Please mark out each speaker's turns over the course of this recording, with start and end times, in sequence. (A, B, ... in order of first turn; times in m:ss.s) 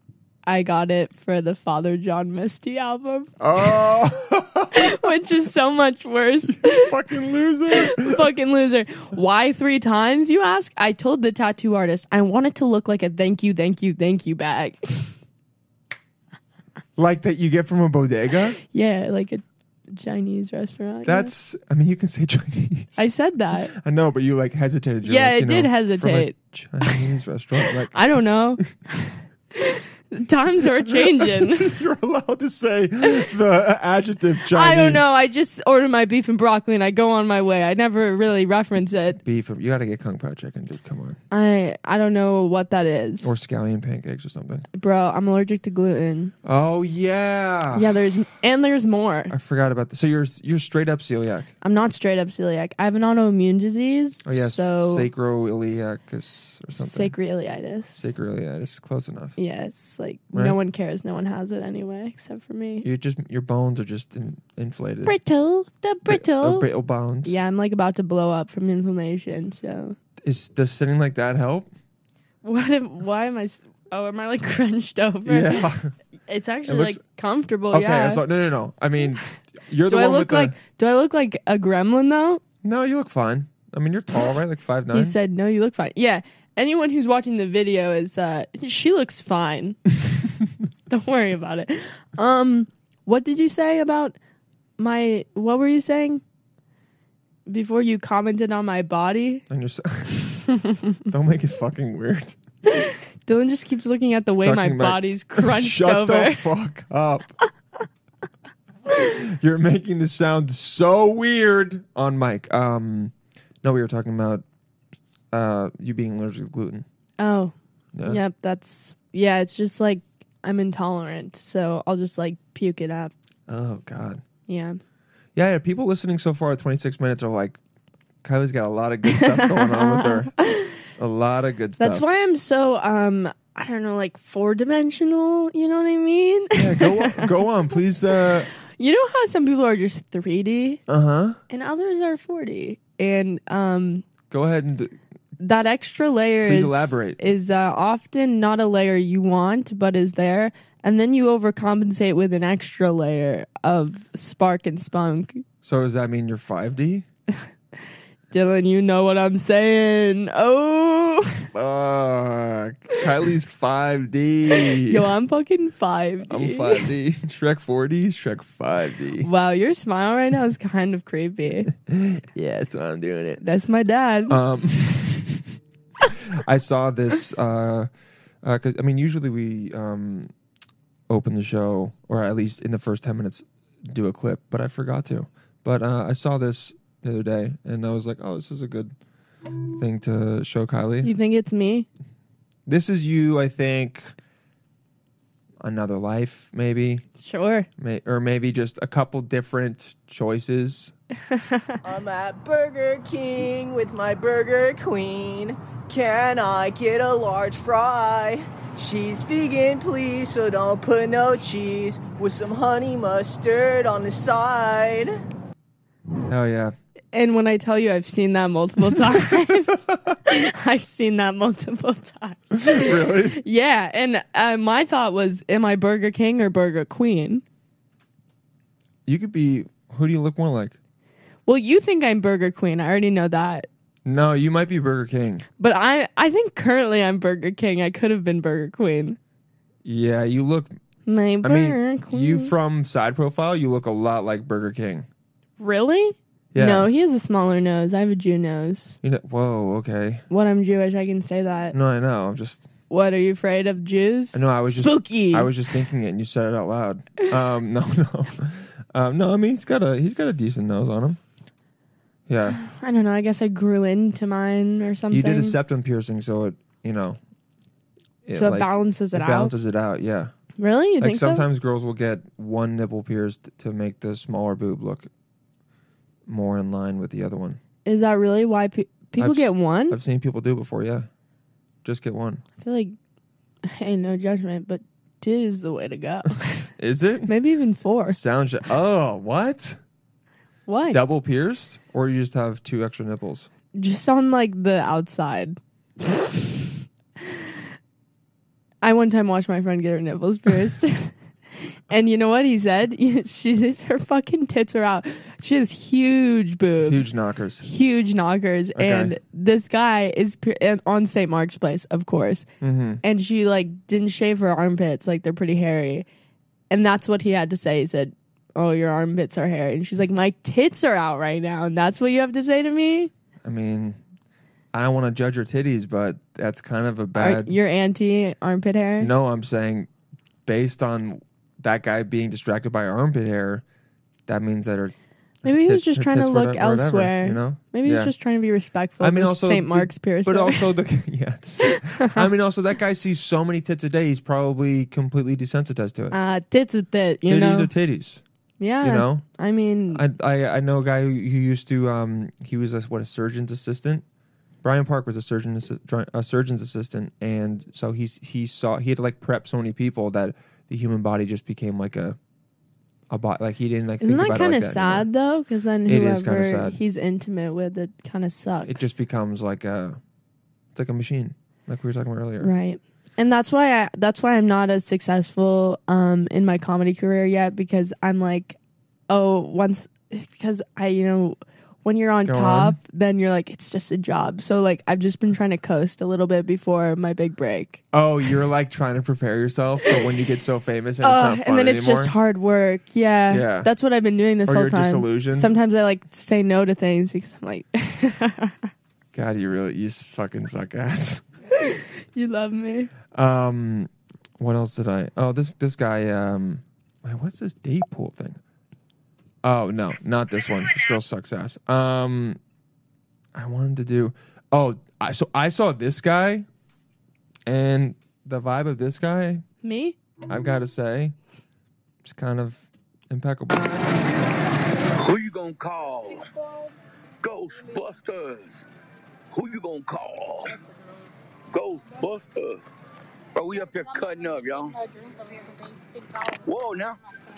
0:00.4-0:03.8 A
0:03.4-0:05.0 B
0:04.7-0:06.9 A
0:06.5-0:08.3 B
0:07.7-0:15.1 A
0:17.0-0:18.6 B
0:18.7-0:21.3 A
0:21.0-0:28.0 B
0:23.0-0:23.7 A
0:25.0-0:27.0 A
0:27.7-0:31.8 A
0:30.8-0:35.0 B
0:34.5-0:39.2 A
0:39.2-0:41.2 B
0:41.3-0:43.3 A
0:43.2-0:44.6 B
0:44.7-0:46.3 A
0:46.4-0:47.9 B
0:47.7-0:49.3 A
0:49.3-0:51.5 B
0:51.6-0:55.1 A
0:54.2-0:57.1 B
0:56.8-0:58.1 A
0:58.0-0:59.4 B
0:59.4-1:02.8 A
1:02.8-1:05.2 B
1:05.0-1:06.7 A
1:06.0-1:07.4 B
1:07.2-1:10.0 A
1:10.2-1:11.7 B
1:12.4-1:15.7 A
1:15.2-1:15.9 B
1:16.3-1:18.2 A
1:16.6-1:17.0 B
1:17.7-1:20.6 B
1:19.8-1:22.4 A
1:22.6-1:25.2 B
1:24.9-1:29.8 A
1:30.9-1:34.2 A
1:34.8-1:36.2 A
1:37.5-1:39.4 A
1:39.5-1:40.4 B
1:41.1-1:42.4 B
1:42.7-1:46.4 A
1:44.4-1:47.3 B
1:49.1-1:54.4 B
1:55.3-1:56.8 B
1:57.2-1:57.5 A
1:57.9-1:58.2 B
1:58.0-2:03.1 A
2:03.5-2:04.2 B
2:04.5-2:04.8 A
2:05.3-2:07.6 B
2:08.2-2:10.3 B
2:09.0-2:10.8 A
2:11.0-2:12.0 B
2:11.8-2:17.3 A
2:16.6-2:18.5 B
2:18.5-2:20.8 A
2:20.9-2:21.4 B
2:21.5-2:24.0 A
2:24.3-2:25.0 B
2:25.4-2:35.4 A
2:26.4-2:27.2 B
2:35.6-2:37.0 B
2:38.3-2:41.5 A
2:41.5-2:45.1 B
2:44.6-2:46.8 A
2:46.3-2:49.3 B
2:49.2-2:51.7 A
2:51.7-2:53.4 B
2:53.4-2:54.4 A
2:54.3-2:55.5 B
2:56.3-2:57.9 B
2:58.4-3:00.3 B
3:01.1-3:08.9 B
3:09.7-3:11.1 B
3:11.0-3:11.9 A
3:12.6-3:14.1 B
3:15.6-3:17.0 B
3:17.2-3:17.7 A
3:17.8-3:20.9 B
3:21.3-3:21.8 A
3:21.8-3:35.1 C
3:36.3-3:36.7 B
3:37.1-3:47.4 A
3:39.0-3:39.6 B
3:42.5-3:43.4 B
3:49.0-3:50.8 B
3:51.5-3:53.7 A
3:54.0-3:55.4 B
3:55.6-3:59.2 A
3:59.8-4:00.7 B
4:01.0-4:02.5 A
4:01.4-4:05.1 B
4:05.6-4:09.0 A
4:06.5-4:06.9 B
4:09.0-4:10.2 B
4:10.3-4:11.7 A
4:11.7-4:12.7 B
4:12.9-4:15.8 A
4:14.3-4:21.2 B
4:22.3-4:22.6 B
4:22.5-4:25.6 A
4:25.1-4:27.2 B
4:28.2-4:30.3 B
4:28.3-4:29.5 A
4:30.6-4:31.4 A
4:31.0-4:35.1 B
4:36.3-4:37.6 B
4:37.8-4:40.0 A
4:39.2-4:41.1 B
4:41.8-4:42.4 B
4:42.6-4:42.9 A
4:43.6-4:46.7 A
4:46.8-4:47.3 B
4:47.2-4:48.2 A
4:48.1-4:49.8 B
4:50.7-4:51.0 A
4:50.9-4:53.5 B
4:53.7-4:56.7 A
4:58.8-5:07.1 A
5:06.8-5:07.6 B
5:07.6-5:12.5 A
5:08.7-5:09.2 B
5:12.6-5:13.0 B
5:13.0-5:16.0 A
5:16.7-5:23.1 A
5:23.4-5:24.0 B
5:24.7-5:27.5 B
5:27.1-5:29.1 A
5:29.0-5:29.9 B
5:30.4-5:33.6 B
5:34.3-5:38.1 B
5:35.4-5:40.7 A
5:39.0-5:46.1 B
5:41.7-5:42.2 A
5:46.1-5:47.7 A
5:47.3-5:48.2 B
5:48.6-5:50.0 A
5:48.8-5:49.2 B
5:49.9-5:54.0 B
5:54.6-6:02.2 B
6:03.1-6:05.1 B
6:04.0-6:09.0 A
6:05.9-6:06.8 B
6:08.6-6:10.0 B
6:10.7-6:12.5 B
6:12.4-6:18.6 A
6:19.1-6:27.8 A
6:22.2-6:22.8 B
6:27.9-6:32.1 B
6:31.0-6:38.6 A
6:33.3-6:33.7 B
6:34.4-6:35.5 B
6:39.1-6:41.2 B
6:41.6-6:42.9 A
6:43.1-6:48.4 B
6:49.4-6:52.4 B
6:53.3-6:56.5 B
6:57.4-6:59.4 B
6:59.6-7:00.0 A
7:00.3-7:01.1 B
7:02.0-7:03.9 B
7:05.0-7:06.2 D
7:07.2-7:08.6 D
7:09.3-7:10.6 D
7:11.5-7:12.6 D
7:13.3-7:14.8 D
7:16.2-7:17.0 D